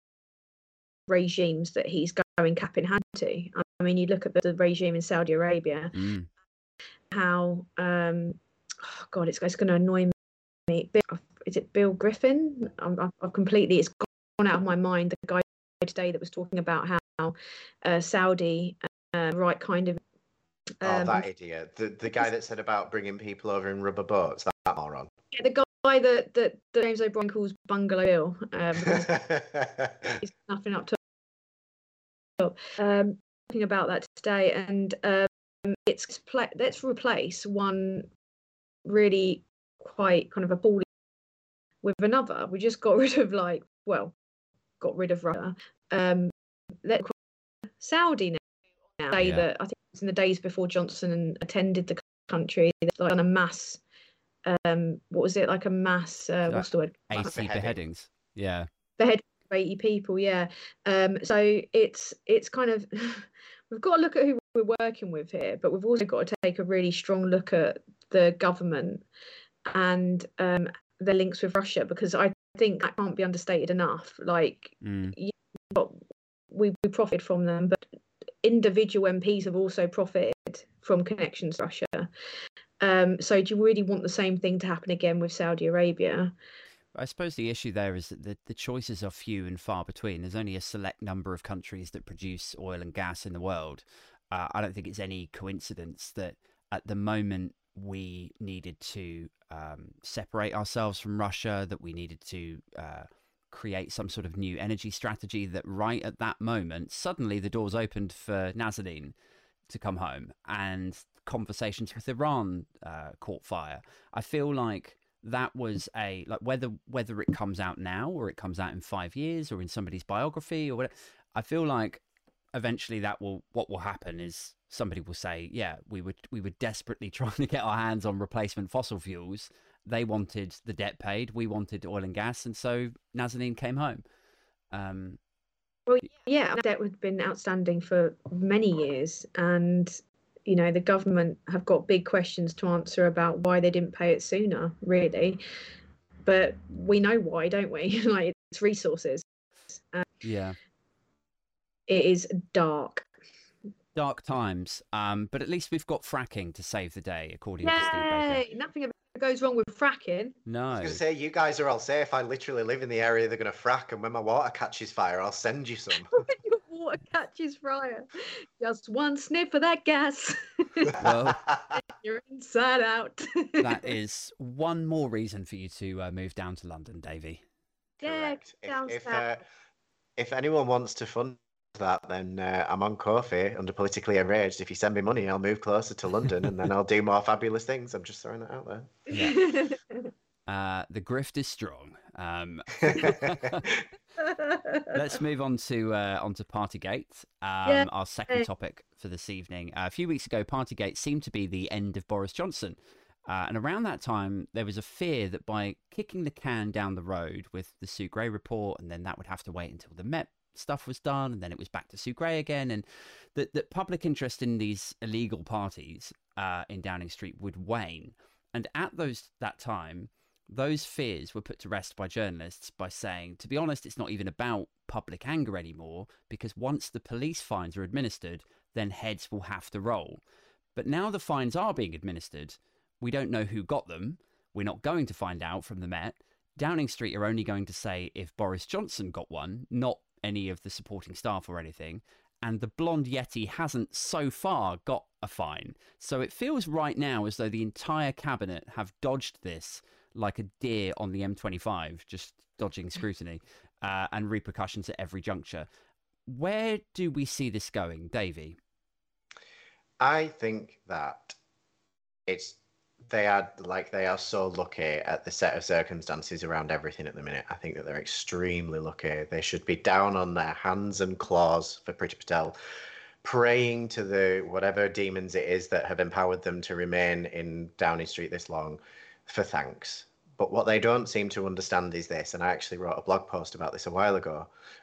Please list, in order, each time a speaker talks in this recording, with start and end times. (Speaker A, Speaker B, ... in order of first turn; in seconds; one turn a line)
Speaker A: 1.1-5.9
Speaker B: 5.9-6.3
Speaker A: 7.1-10.1
Speaker A: 10.7-20.0
Speaker A: 20.8-21.2
Speaker C: 20.8-25.1
Speaker A: 25.3-29.2
Speaker C: 28.8-30.2
Speaker A: 30.2-31.0
Speaker A: 32.4-38.1
Speaker A: 38.9-40.9
Speaker A: 41.8-44.1
Speaker A: 44.8-46.3
Speaker A: 46.8-47.1
Speaker A: 47.8-48.4
Speaker A: 49.0-53.8
Speaker B: 49.1-49.5
Speaker A: 54.5-57.3
Speaker B: 56.5-58.7
Speaker C: 57.2-57.8
Speaker A: 59.0-69.0
Speaker A: 69.7-76.0
Speaker B: 74.8-75.2
Speaker A: 76.5-77.8
Speaker A: 78.4-82.1
Speaker A: 82.8-86.3
Speaker B: 87.0-109.1
Speaker B: 109.7-122.0
Speaker B: 122.5-134.0
Speaker B: 134.7-135.2
Speaker A: 135.9-145.4
Speaker A: 146.2-150.1
Speaker B: 150.2-150.6
Speaker A: 151.9-153.1
Speaker B: 153.9-158.4
Speaker A: 157.6-160.4
Speaker B: 160.5-161.0
Speaker C: 160.8-166.1
Speaker A: 166.1-171.0
Speaker B: 171.0-171.4
Speaker C: 171.0-171.7
Speaker A: 171.7-173.9
Speaker B: 173.6-177.4
Speaker C: 178.0-179.4
Speaker A: 178.0-179.2
Speaker C: 180.2-189.0
Speaker B: 189.1-189.4
Speaker A: 189.2-190.1
Speaker B: 190.5-193.7
Speaker C: 192.8-193.8
Speaker A: 194.2-194.9
Speaker B: 194.9-230.2
Speaker A: 197.7-198.5
Speaker B: 230.8-255.7
Speaker B: 256.3-258.6
Speaker C: 260.0-261.4
Speaker C: 262.3-262.6
Speaker C: 263.1-272.6
Speaker C: 273.2-284.5